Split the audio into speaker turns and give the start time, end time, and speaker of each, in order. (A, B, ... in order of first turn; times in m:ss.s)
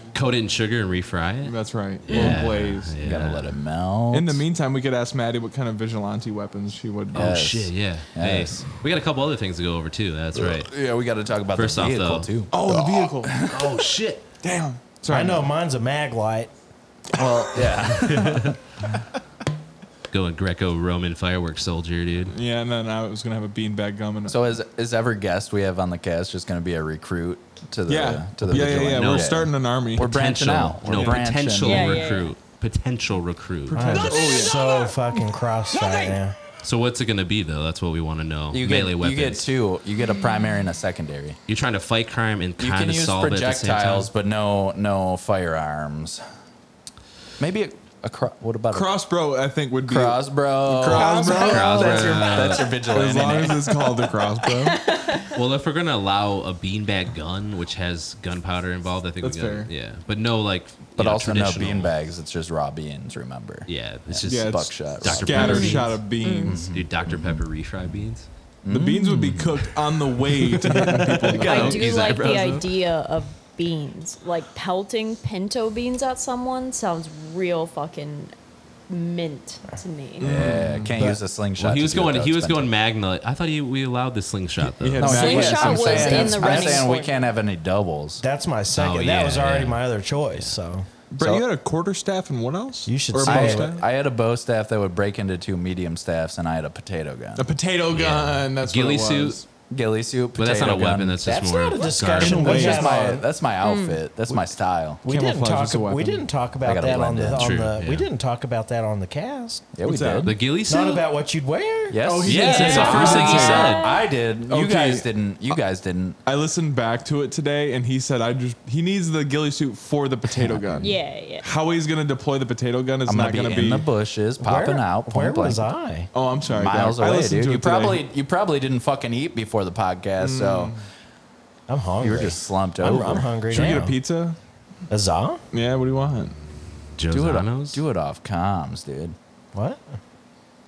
0:00.1-0:03.6 A
0:01.4-0:03.0 B
0:02.1-0:04.4 C
0:04.1-0:07.4 B
0:07.1-0:08.6 C
0:07.1-0:10.7 A
0:10.3-0:13.8 C
0:11.5-0:12.3 A
0:12.5-0:13.4 B
0:13.5-0:14.2 D
0:14.4-0:15.5 B
0:15.1-0:16.5 D
0:17.1-0:18.6 C
0:18.0-0:18.5 A
0:20.1-0:22.3 A
0:22.3-0:24.4 B
0:24.3-0:32.1 C
0:27.9-0:30.1 B
0:28.5-0:29.4 A
0:30.0-0:34.1 A
0:30.8-0:31.3 B
0:31.6-0:32.3 E
0:33.7-0:36.4 D
0:33.7-0:34.6 B
0:36.6-0:39.5 A
0:38.5-0:41.4 C
0:41.5-0:44.1 A
0:42.6-0:46.2 C
0:47.4-0:48.9 C
0:48.7-0:54.8 B
0:49.9-0:53.8 C
0:50.9-0:52.8 A
0:54.5-0:55.3 E
0:55.2-1:01.9 A
0:59.2-0:59.7 B
1:01.0-1:05.9 C
1:03.7-1:06.0 A
1:04.2-1:06.6 B
1:05.4-1:06.6 E
1:06.4-1:07.4 C
1:06.6-1:08.3 A
1:08.6-1:09.5 C
1:08.7-1:11.9 B
1:10.3-1:12.7 A
1:11.3-1:18.3 E
1:18.9-1:20.3 E
1:20.2-1:20.9 B
1:20.2-1:22.7 C
1:21.6-1:25.2 A
1:24.7-1:26.4 B
1:25.0-1:28.2 C
1:25.0-1:27.1 E
1:25.9-1:26.9 D
1:28.2-1:30.9 D
1:28.7-1:30.5 A
1:31.1-1:33.8 B
1:32.8-1:33.7 D
1:33.2-1:37.5 C
1:37.4-1:39.4 B
1:37.9-1:39.4 A
1:39.7-1:41.2 C
1:40.4-1:42.6 A
1:41.2-1:43.3 D
1:42.2-1:43.0 B
1:42.4-1:45.0 C
1:43.6-1:44.0 E
1:45.0-1:49.7 D
1:45.0-1:46.2 B
1:46.6-1:47.5 C
1:47.3-1:48.1 A
1:49.7-1:50.3 C
1:49.8-1:50.3 B
1:50.2-1:51.0 A
1:50.7-1:52.0 D
1:51.9-1:56.2 C
1:52.0-1:53.8 B
1:52.2-1:53.8 A
1:52.3-1:54.0 E
1:54.4-1:55.0 B
1:56.2-2:03.8 B
2:00.4-2:00.9 C
2:00.8-2:01.5 E
2:03.0-2:05.7 C
2:04.4-2:06.1 D
2:06.1-2:08.0 B
2:06.5-2:10.8 C
2:10.2-2:10.8 B
2:11.7-2:14.0 D
2:12.0-2:13.6 C
2:13.5-2:14.4 B
2:14.9-2:15.4 D
2:15.5-2:16.3 B
2:17.0-2:17.8 A
2:17.1-2:19.2 C
2:19.5-2:20.0 D